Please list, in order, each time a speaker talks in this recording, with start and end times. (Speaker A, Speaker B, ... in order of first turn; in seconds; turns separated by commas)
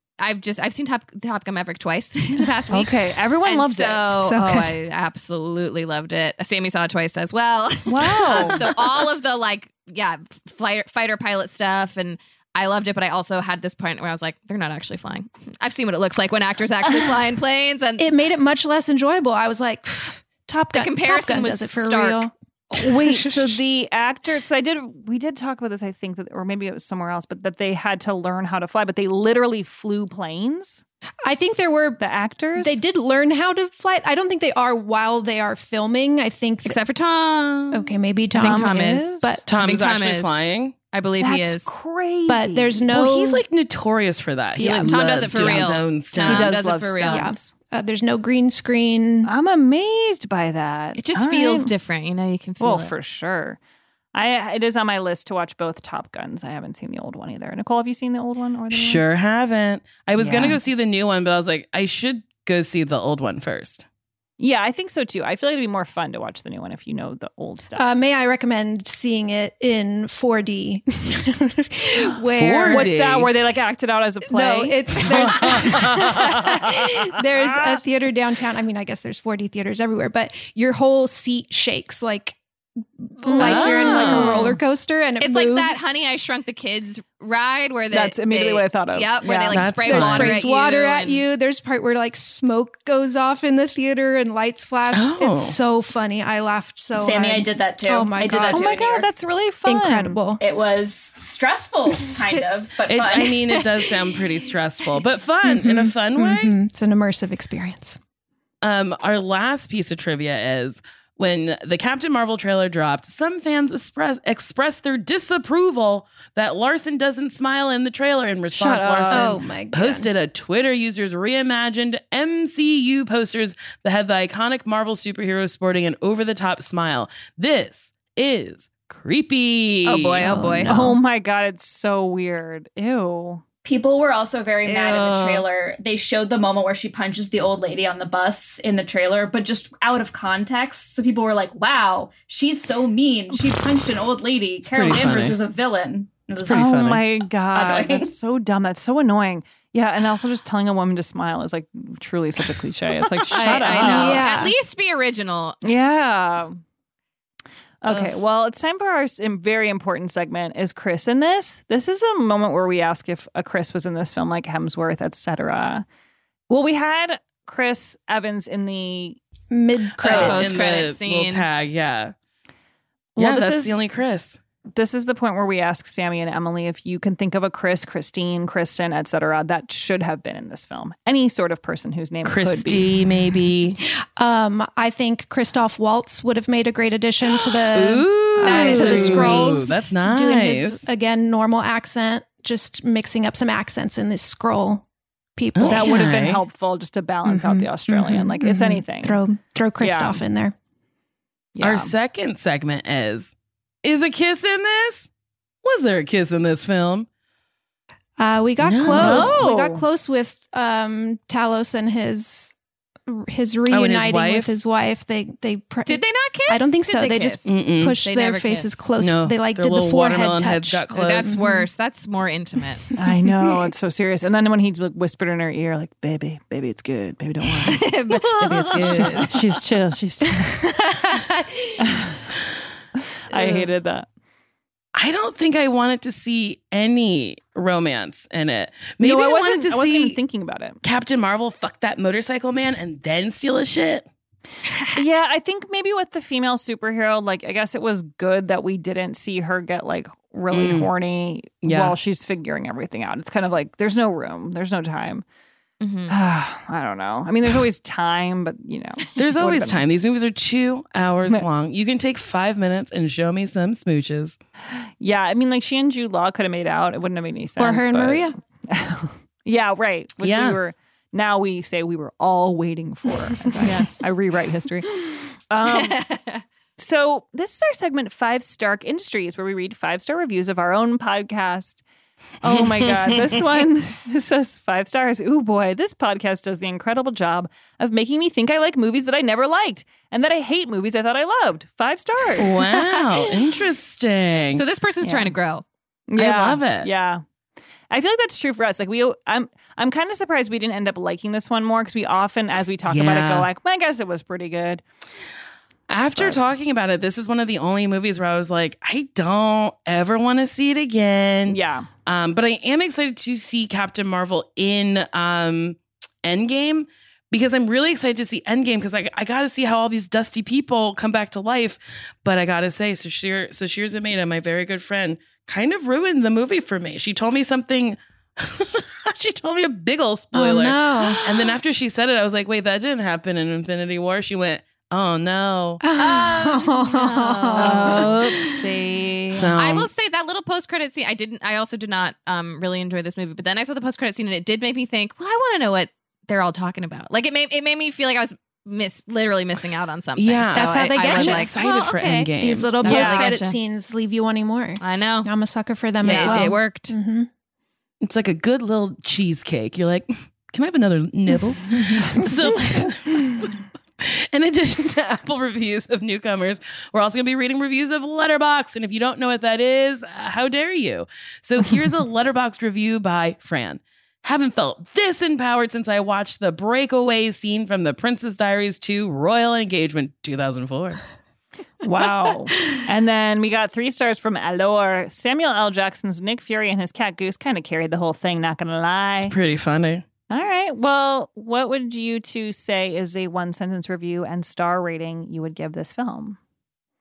Speaker A: 0.2-18.1, Speaker B: 2.7-4.2, Speaker C: 4.2-4.8, Speaker B: 7.9-8.7, Speaker C: 18.0-23.6, Speaker A: 20.6-22.3, Speaker B: 22.7-30.8, Speaker C: 31.2-32.0, Speaker B: 32.0-32.8, Speaker C: 32.6-36.8, Speaker A: 36.6-40.4, Speaker C: 37.7-39.4, Speaker B: 38.4-39.4, Speaker D: 39.5-40.8, Speaker A: 40.9-41.7, Speaker B: 41.2-42.9, Speaker C: 42.3-43.5, Speaker D: 42.9-46.6, Speaker C: 44.6-45.6, Speaker A: 44.8-47.3, Speaker B: 46.2-47.5, Speaker C: 47.1-49.3, Speaker B: 49.2-51.7, Speaker A: 51.0-52.9, Speaker B: 52.6-53.6, Speaker B: 54.1-59.1, Speaker D: 58.7-63.8, Speaker B: 60.2-60.6, Speaker B: 64.4-67.9, Speaker C: 67.8-72.9, Speaker D: 72.3-73.3, Speaker B: 72.7-74.9, Speaker C: 74.2-82.4, Speaker D: 75.2-76.2, Speaker C: 83.0-85.9, Speaker D: 83.4-84.4, Speaker B: 83.4-84.6, Speaker A: 83.5-84.5, Speaker A: 85.2-91.2, Speaker B: 87.9-90.4, Speaker D: 89.5-90.3, Speaker C: 89.9-98.8, Speaker D: 94.9-95.6, Speaker E: 96.9-99.1, Speaker B: 98.5-100.2, Speaker C: 99.7-100.4, Speaker E: 100.4-103.5, Speaker D: 102.9-106.5, Speaker C: 105.4-108.0, Speaker D: 108.6-131.0, Speaker B: 118.5-119.5, Speaker C: 119.1-120.1, Speaker A: 129.8-130.7, Speaker B: 130.7-133.4, Speaker E: 133.6-146.7, Speaker A: 134.6-135.5, Speaker D: 144.6-145.4, Speaker D: 146.4-147.1, Speaker B: 146.5-154.3, Speaker E: 147.5-148.1, Speaker A: 153.3-155.6, Speaker C: 153.7-154.5, Speaker B: 155.6-156.6, Speaker B: 157.8-165.9, Speaker B: 166.5-169.2, Speaker C: 169.5-170.7, Speaker D: 170.0-172.1, Speaker B: 170.0-170.9, Speaker A: 170.1-171.5, Speaker B: 173.2-173.8, Speaker D: 173.2-174.4, Speaker B: 174.8-182.9, Speaker D: 182.2-183.8, Speaker C: 184.2-194.8, Speaker D: 187.7-190.9, Speaker B: 188.4-189.9, Speaker A: 188.4-189.3, Speaker C: 195.4-196.2, Speaker D: 195.6-196.4, Speaker B: 195.6-199.2, Speaker C: 197.2-200.6, Speaker B: 199.8-200.2, Speaker B: 201.6-201.9, Speaker D: 201.6-205.1, Speaker D: 205.6-207.1, Speaker C: 208.2-212.5, Speaker D: 208.6-209.5, Speaker B: 208.9-209.8, Speaker C: 213.1-221.7, Speaker D: 213.7-214.5, Speaker A: 215.8-218.9, Speaker D: 217.5-218.0, Speaker D: 219.0-221.4, Speaker A: 220.9-222.8, Speaker B: 223.0-227.9, Speaker A: 227.7-229.3, Speaker D: 228.2-229.3, Speaker B: 228.9-230.7, Speaker B: 231.8-232.2, Speaker B: 233.3-234.1, Speaker D: 233.3-233.7, Speaker D: 234.9-240.2, Speaker B: 239.0-240.8, Speaker D: 240.8-244.1, Speaker B: 244.9-255.2, Speaker D: 250.5-250.9, Speaker D: 251.6-252.0, Speaker A: 255.8-256.1, Speaker B: 256.1-259.9, Speaker D: 259.1-264.4, Speaker B: 264.7-276.1, Speaker C: 267.6-268.4, Speaker D: 270.2-270.6, Speaker C: 273.6-273.9, Speaker A: 275.7-276.4, Speaker B: 276.8-281.8, Speaker B: 282.4-293.0, Speaker D: 282.6-283.4, Speaker D: 292.4-294.6, Speaker A: 294.5-295.6, Speaker B: 295.0-295.4, Speaker B: 296.1-297.2, Speaker D: 296.2-296.9, Speaker B: 297.9-304.8, Speaker D: 302.9-303.5, Speaker D: 305.9-335.8, Speaker B: 306.1-306.4, Speaker B: 311.5-311.9, Speaker C: 330.3-331.2, Speaker C: 335.8-338.1, Speaker A: 336.0-338.5, Speaker B: 337.6-339.5, Speaker D: 337.7-338.6, Speaker D: 339.3-339.9, Speaker A: 339.6-353.6, Speaker D: 350.2-353.1, Speaker C: 350.5-351.6, Speaker C: 352.4-357.3, Speaker B: 352.9-353.3, Speaker A: 354.8-355.3, Speaker A: 356.0-356.9, Speaker B: 356.1-356.5, Speaker D: 358.0-381.0, Speaker B: 381.8-389.4, Speaker D: 389.2-390.1, Speaker B: 390.3-396.4